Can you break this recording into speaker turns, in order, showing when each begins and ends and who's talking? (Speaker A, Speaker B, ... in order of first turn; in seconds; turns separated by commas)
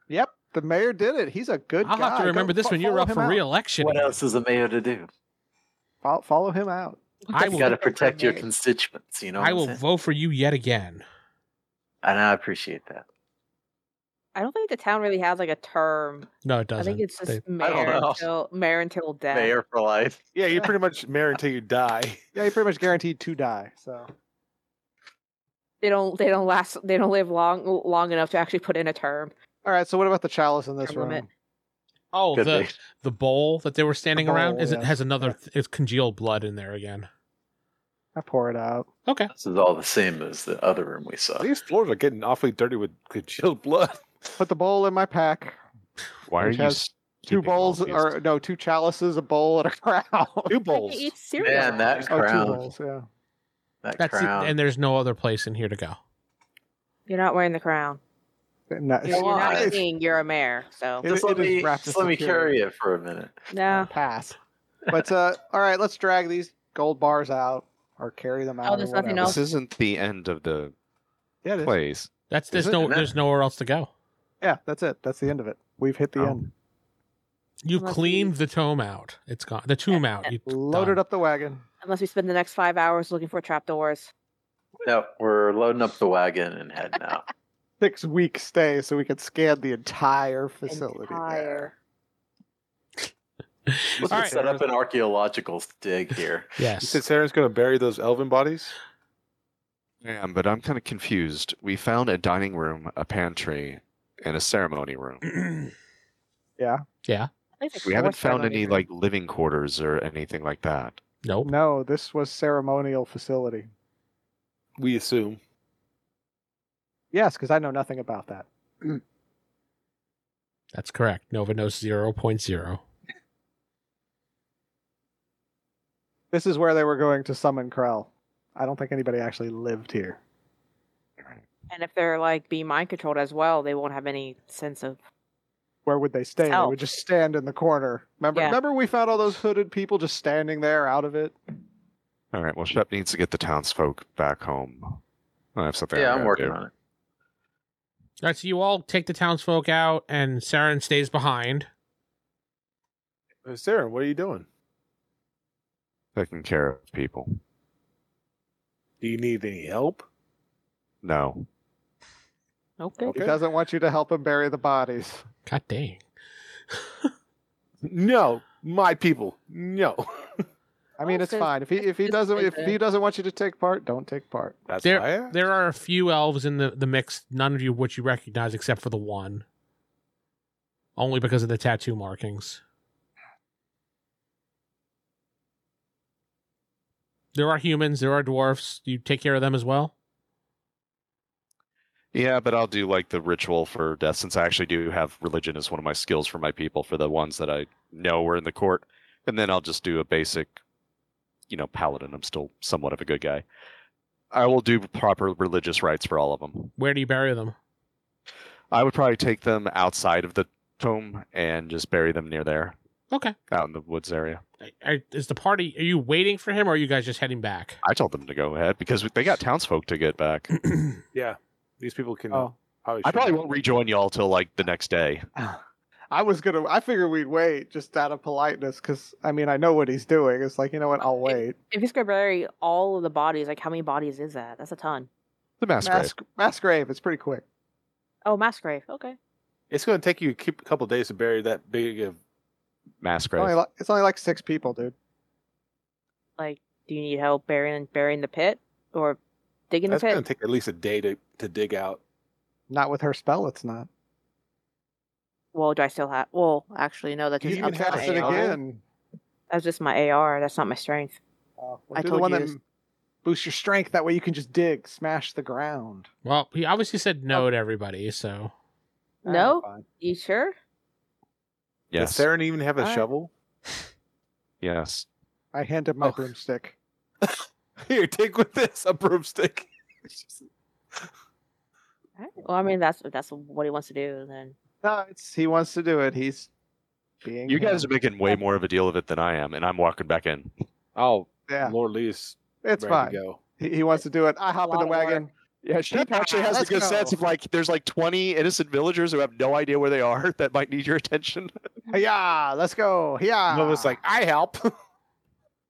Speaker A: 0.1-3.4, Speaker B: 1.8-4.2, Speaker C: 3.8-5.1, Speaker A: 6.0-7.0, Speaker D: 7.3-8.5, Speaker B: 7.3-7.8, Speaker C: 7.4-9.8, Speaker B: 9.4-11.0, Speaker C: 12.0-13.0, Speaker D: 14.3-19.5, Speaker B: 16.4-17.4, Speaker C: 17.6-18.3, Speaker C: 19.3-20.2, Speaker E: 20.3-22.2, Speaker A: 22.4-24.1, Speaker D: 25.8-29.3, Speaker A: 29.6-31.3, Speaker D: 30.8-31.2, Speaker B: 32.1-37.1, Speaker C: 32.3-32.8, Speaker A: 34.2-35.4, Speaker A: 38.1-38.9, Speaker C: 39.3-41.5, Speaker E: 41.4-44.4, Speaker A: 44.4-45.6, Speaker F: 46.3-48.2, Speaker A: 46.4-50.6, Speaker E: 50.5-51.1, Speaker D: 50.7-52.2, Speaker C: 51.4-52.6, Speaker A: 52.1-53.1, Speaker C: 53.8-54.6, Speaker B: 54.0-56.0, Speaker D: 57.1-58.0, Speaker A: 58.7-59.8, Speaker D: 59.0-61.1, Speaker C: 59.1-59.8, Speaker C: 61.0-63.4, Speaker A: 61.0-62.6, Speaker D: 63.5-63.9, Speaker A: 63.7-64.4, Speaker A: 64.9-69.4, Speaker D: 68.6-69.4, Speaker F: 69.2-70.7, Speaker A: 71.4-71.7, Speaker F: 71.6-72.8, Speaker B: 72.3-73.9, Speaker C: 72.8-73.1, Speaker A: 74.4-76.5, Speaker B: 77.6-81.0, Speaker D: 77.8-78.3, Speaker A: 80.5-81.6, Speaker D: 81.8-84.1, Speaker C: 84.8-87.2, Speaker A: 87.8-91.7, Speaker D: 90.7-91.7, Speaker B: 93.7-94.3, Speaker E: 94.0-94.6, Speaker C: 94.0-96.6, Speaker B: 96.6-97.0, Speaker E: 96.8-98.7, Speaker F: 100.0-105.2, Speaker B: 105.3-105.7, Speaker A: 106.6-106.8, Speaker D: 107.6-108.9, Speaker F: 107.8-111.0, Speaker B: 111.2-111.5, Speaker A: 111.4-113.7, Speaker E: 114.8-115.4, Speaker A: 117.1-119.0, Speaker B: 120.7-122.8, Speaker A: 126.3-130.2, Speaker D: 131.7-135.0, Speaker A: 135.9-141.4, Speaker D: 136.5-136.8, Speaker F: 142.3-145.0, Speaker F: 145.6-146.6, Speaker C: 145.9-146.7, Speaker B: 148.2-151.7, Speaker E: 153.4-154.4, Speaker F: 156.2-157.4, Speaker E: 159.0-160.1, Speaker F: 161.0-161.5, Speaker D: 162.8-163.2, Speaker E: 163.1-163.4, Speaker A: 163.2-165.2, Speaker B: 165.5-166.0, Speaker E: 167.8-170.3, Speaker A: 171.0-174.6, Speaker D: 171.0-172.8, Speaker E: 174.7-175.4, Speaker B: 174.8-179.4, Speaker B: 181.0-182.6, Speaker B: 187.3-189.9, Speaker F: 192.1-200.6, Speaker F: 201.5-203.4, Speaker F: 204.3-206.7, Speaker B: 206.8-207.6, Speaker F: 208.7-212.8, Speaker B: 213.1-213.4, Speaker F: 213.5-214.4, Speaker B: 214.6-217.8, Speaker F: 217.8-220.5, Speaker B: 220.7-221.0, Speaker E: 221.1-223.6, Speaker F: 223.0-225.3, Speaker A: 226.1-231.5, Speaker D: 231.2-235.1, Speaker F: 235.6-236.1, Speaker A: 235.8-237.4, Speaker D: 238.2-239.2, Speaker E: 239.7-242.2, Speaker F: 243.0-243.6, Speaker A: 243.4-244.9, Speaker D: 246.4-249.2, Speaker D: 249.7-250.2, Speaker E: 249.9-252.0, Speaker A: 252.7-253.9, Speaker D: 255.5-258.6, Speaker E: 257.4-258.6, Speaker A: 257.5-258.8, Speaker D: 259.5-261.2, Speaker A: 261.6-262.6, Speaker D: 262.0-262.2, Speaker E: 262.0-262.5, Speaker A: 263.2-266.1, Speaker B: 266.2-268.5, Speaker D: 269.2-270.6, Speaker A: 269.3-269.8, Speaker F: 271.9-272.3, Speaker E: 271.9-273.3, Speaker D: 272.8-273.1, Speaker F: 274.6-275.1, Speaker A: 275.5-276.8, Speaker E: 276.0-276.3, Speaker E: 277.2-280.4, Speaker D: 282.2-284.6, Speaker A: 284.8-286.5, Speaker A: 287.2-287.9, Speaker F: 287.5-290.5, Speaker E: 290.9-293.4, Speaker A: 291.5-291.8, Speaker A: 292.6-297.2, Speaker D: 294.6-295.3, Speaker F: 295.8-301.6, Speaker A: 301.9-304.0, Speaker E: 303.5-304.7